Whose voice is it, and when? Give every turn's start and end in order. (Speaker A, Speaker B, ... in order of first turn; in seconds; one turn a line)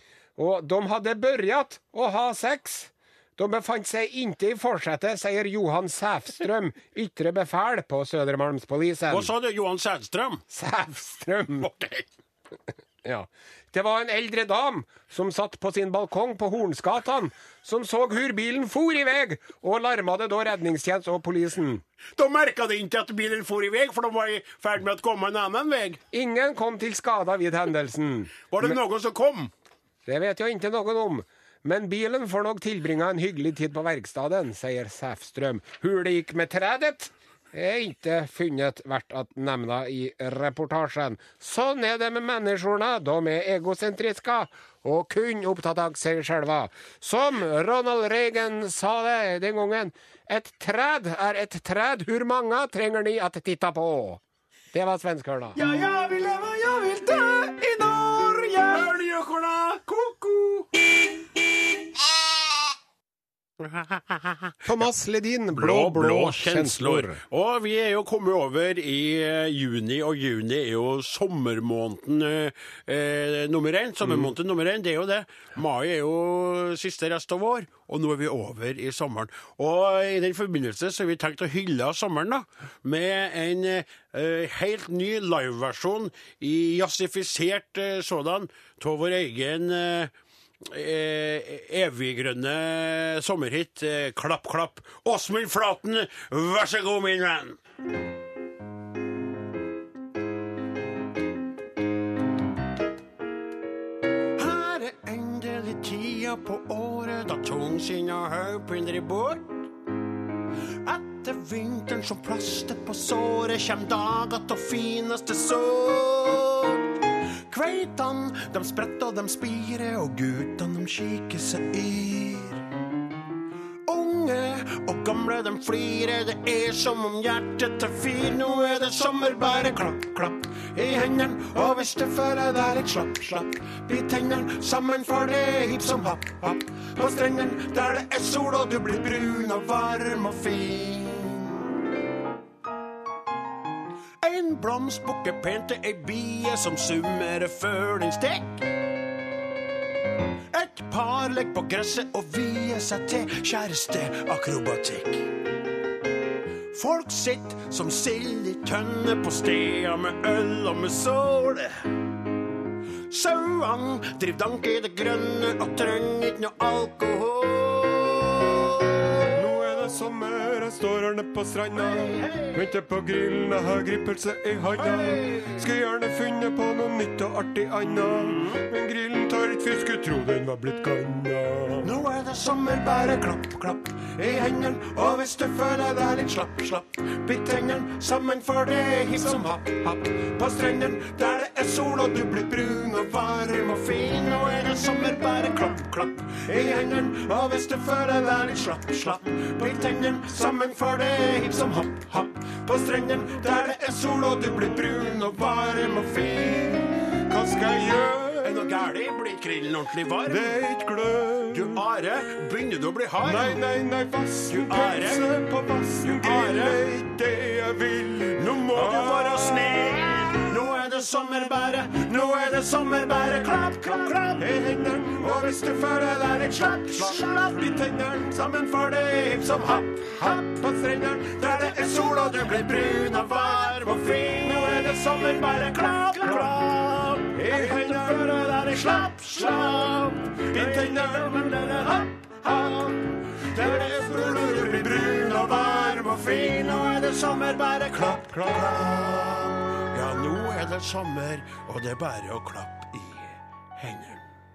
Speaker A: 0.4-9.3
Speaker B: 9.1-10.4
Speaker A: 10.5-11.7
Speaker B: 11.6-12.1
Speaker A: 13.0-21.8
Speaker B: 22.2-26.0
Speaker A: 26.1-28.8
Speaker B: 28.5-29.5
Speaker A: 30.1-54.2
Speaker A: 54.7-55.6
Speaker B: 55.6-60.8
Speaker B: 63.6-64.6
Speaker A: 64.6-67.2
Speaker B: 65.5-97.6
Speaker B: 104.4-109.7
Speaker B: 110.8-122.7
Speaker B: 123.9-141.7
Speaker B: 144.2-148.7
Speaker B: 150.5-155.3
Speaker B: 156.7-161.8
Speaker B: 163.1-169.4
Speaker A: 169.3-181.9
Speaker B: 171.8-172.6
Speaker B: 174.8-175.7
Speaker B: 178.2-178.6
Speaker B: 181.8-206.9
Speaker A: 207.3-208.7
Speaker B: 208.4-210.6
Speaker A: 210.3-211.8
Speaker B: 211.5-213.6
Speaker A: 213.2-220.3
Speaker B: 214.5-215.3
Speaker B: 216.0-216.8
Speaker B: 218.4-224.6
Speaker A: 224.4-228.4
Speaker B: 226.1-254.3
Speaker A: 234.4-235.2
Speaker A: 237.4-238.2
Speaker A: 243.9-244.5